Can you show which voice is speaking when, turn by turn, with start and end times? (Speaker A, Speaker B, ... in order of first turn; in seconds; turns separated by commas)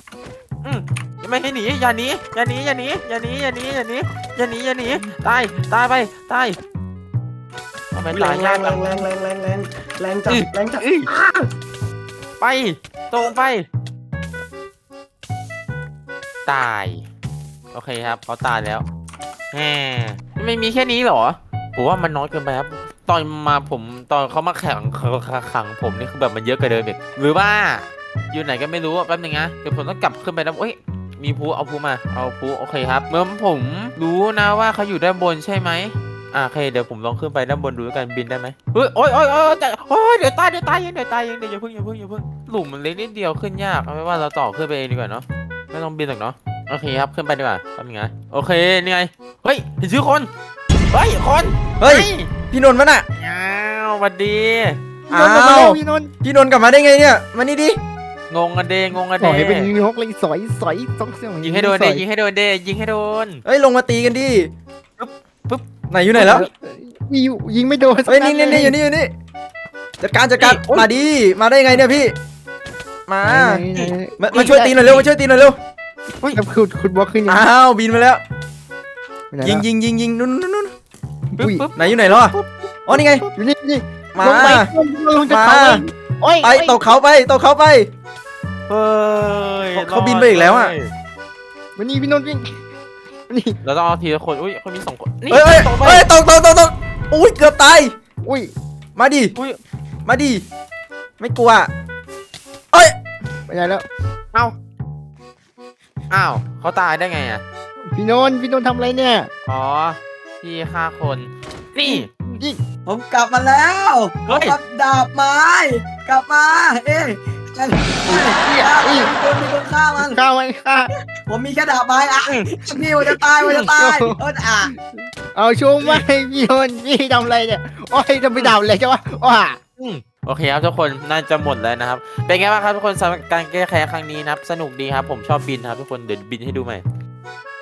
Speaker A: 0.6-6.6, Speaker A: 7.9-9.1, Speaker B: 8.1-11.4, Speaker A: 10.3-11.1, Speaker A: 12.4-13.7, Speaker A: 16.4-17.0, Speaker A: 17.7-18.9, Speaker A: 19.5-50.3, Speaker A: 50.9-52.3, Speaker C: 51.8-53.0, Speaker A: 53.2-54.8, Speaker D: 55.1-56.1, Speaker C: 55.1-57.8, Speaker A: 58.3-59.7, Speaker D: 59.2-62.0, Speaker A: 61.4-63.4, Speaker C: 63.4-64.5, Speaker A: 65.0-66.5, Speaker C: 65.9-66.5, Speaker D: 66.2-68.8, Speaker C: 68.0-69.1, Speaker C: 70.0-72.1, Speaker A: 70.4-70.9, Speaker C: 73.1-73.6, Speaker D: 73.2-74.8, Speaker A: 73.7-75.1, Speaker C: 74.2-75.6, Speaker D: 76.2-77.4, Speaker C: 77.3-78.2, Speaker D: 79.3-79.6, Speaker C: 79.4-80.7, Speaker A: 81.4-82.5, Speaker D: 81.4-81.7, Speaker C: 81.8-82.3, Speaker C: 82.9-83.2, Speaker D: 82.9-86.9, Speaker C: 84.1-84.7, Speaker C: 85.3-85.8, Speaker C: 86.4-87.9, Speaker A: 88.7-90.9, Speaker C: 89.7-90.7, Speaker D: 91.8-92.5, Speaker D: 93.3-93.5, Speaker A: 93.6-96.1, Speaker C: 95.3-97.9, Speaker D: 98.2-98.5, Speaker C: 99.0-99.3, Speaker A: 99.3-99.6, Speaker C: 100.0-100.4, Speaker C: 101.2-101.7, Speaker D: 103.5-103.8, Speaker A: 106.1-107.4, Speaker D: 107.9-109.3, Speaker A: 109.4-112.1, Speaker D: 111.8-112.6, Speaker E: 112.8-120.2, Speaker A: 114.3-114.5, Speaker D: 118.0-119.1, Speaker D: 120.0-120.9, Speaker E: 121.3-124.7, Speaker A: 123.4-123.7, Speaker D: 123.4-124.8, Speaker D: 125.3-129.6, Speaker A: 129.8-136.8